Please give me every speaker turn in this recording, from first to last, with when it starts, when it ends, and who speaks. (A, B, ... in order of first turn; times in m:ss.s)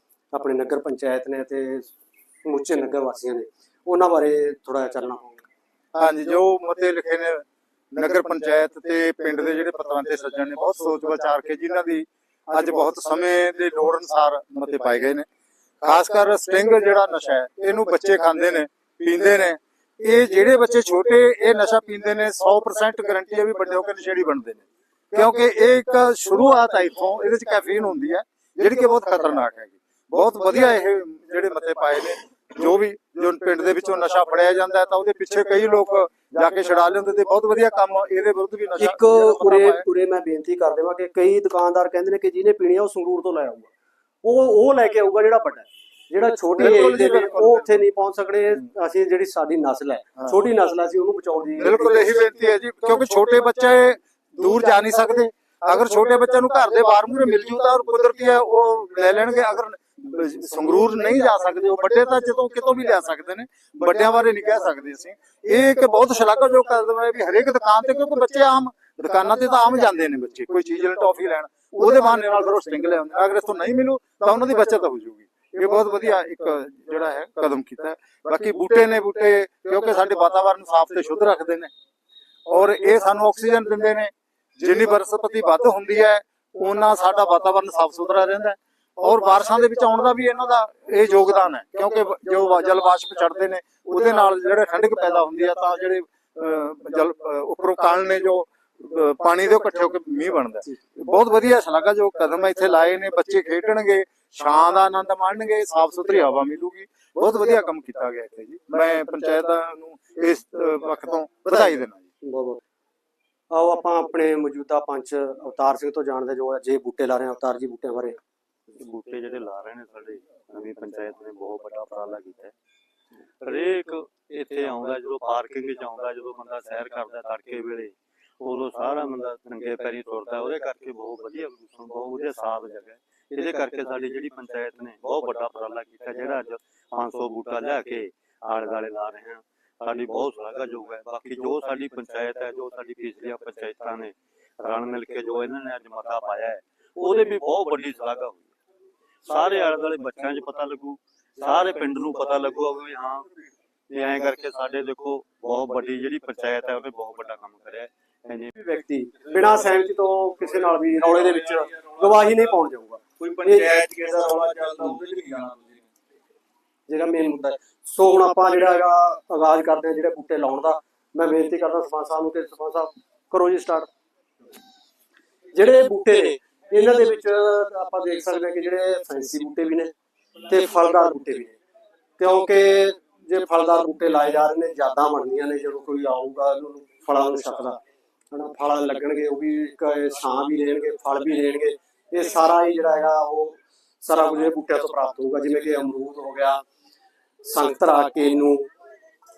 0:00.3-0:01.9 A
0:02.4-0:05.4 A
0:05.9-0:15.2 B
0:15.8-0:39.8 B
0:38.8-0:43.7 A
0:44.2-0:52.1 A
0:46.6-0:47.8 B
0:51.6-1:21.7 B
1:22.5-1:52.0 B
1:52.2-1:52.6 A
1:53.5-1:58.2 A
1:58.7-2:02.5 C
2:03.4-2:28.5 C
2:29.2-2:33.3 C
2:33.9-2:38.5 C
2:38.5-2:43.7 A
2:39.4-2:39.7 D
2:41.1-2:42.0 D
2:43.2-2:45.8 D
2:46.9-2:53.9 A
2:55.5-2:59.9 A
3:00.5-3:01.6 A
3:02.2-3:07.8 A
3:08.3-3:16.6 A
3:17.4-3:18.7 A